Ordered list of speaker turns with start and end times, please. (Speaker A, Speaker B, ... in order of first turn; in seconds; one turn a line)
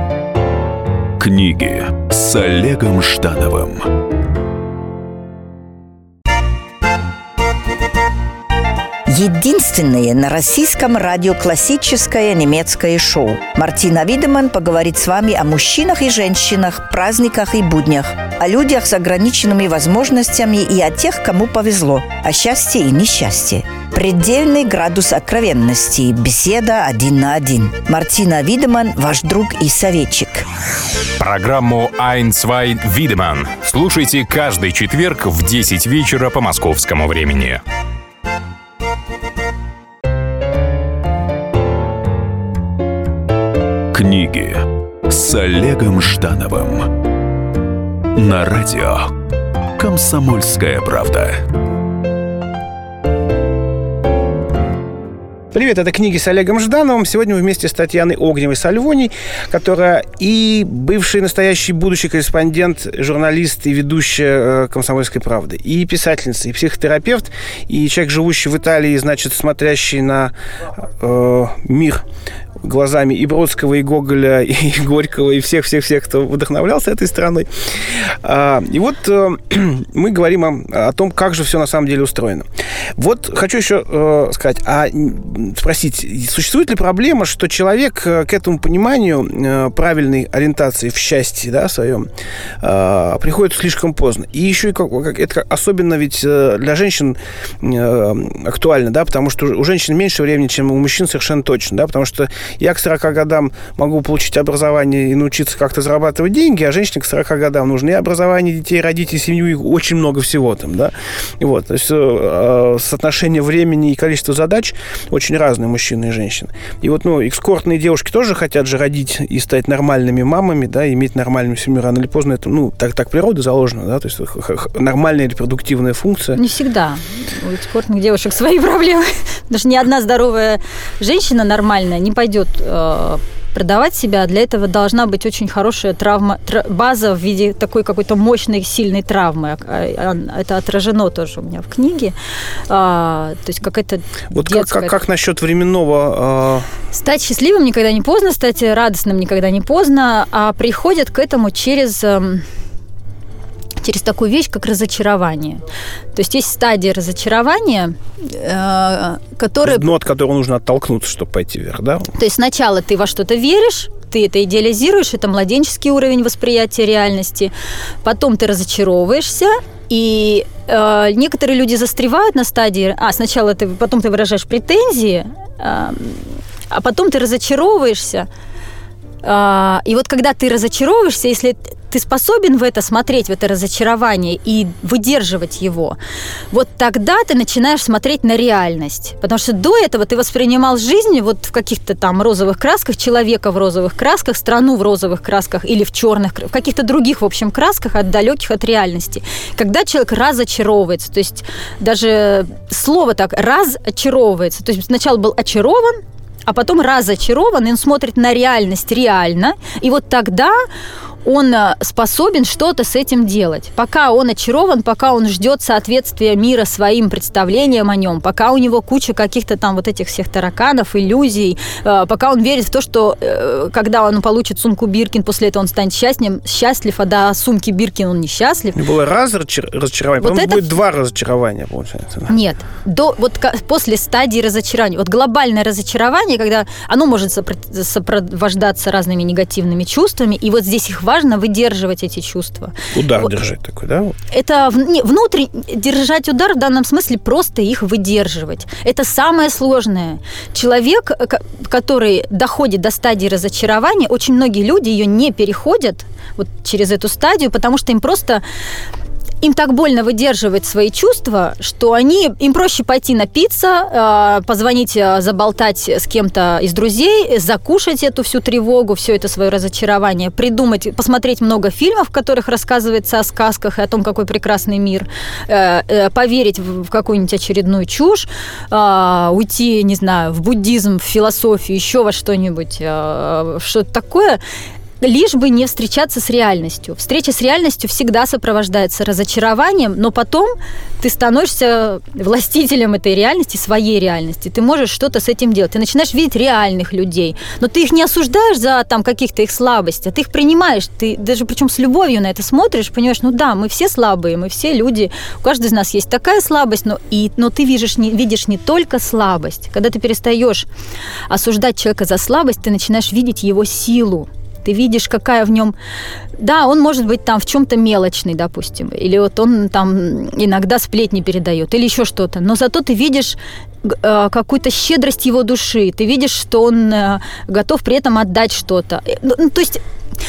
Speaker A: 1.2-3.9
Speaker B: 9.1-30.4
Speaker C: 31.2-37.6
Speaker A: 43.9-46.9
Speaker A: 48.1-49.1
Speaker A: 49.8-51.4
Speaker D: 55.5-72.0
Speaker D: 72.6-77.5
Speaker D: 78.2-92.1
Speaker D: 92.6-126.4
Speaker E: 126.3-142.1
Speaker E: 142.7-144.9
Speaker D: 144.3-146.7
Speaker E: 146.9-152.4
Speaker E: 153.8-155.6
Speaker E: 156.1-159.9
Speaker D: 159.6-162.1
Speaker E: 162.1-167.5
Speaker E: 168.0-178.3
Speaker E: 179.2-186.0
Speaker E: 186.5-210.6
Speaker E: 211.2-228.8
Speaker D: 228.7-232.3
Speaker E: 230.2-230.7
Speaker E: 232.3-243.2
Speaker D: 242.9-244.1
Speaker E: 244.3-258.4
Speaker E: 259.4-284.4
Speaker E: 285.0-310.7
Speaker E: 311.3-315.7
Speaker E: 316.4-329.8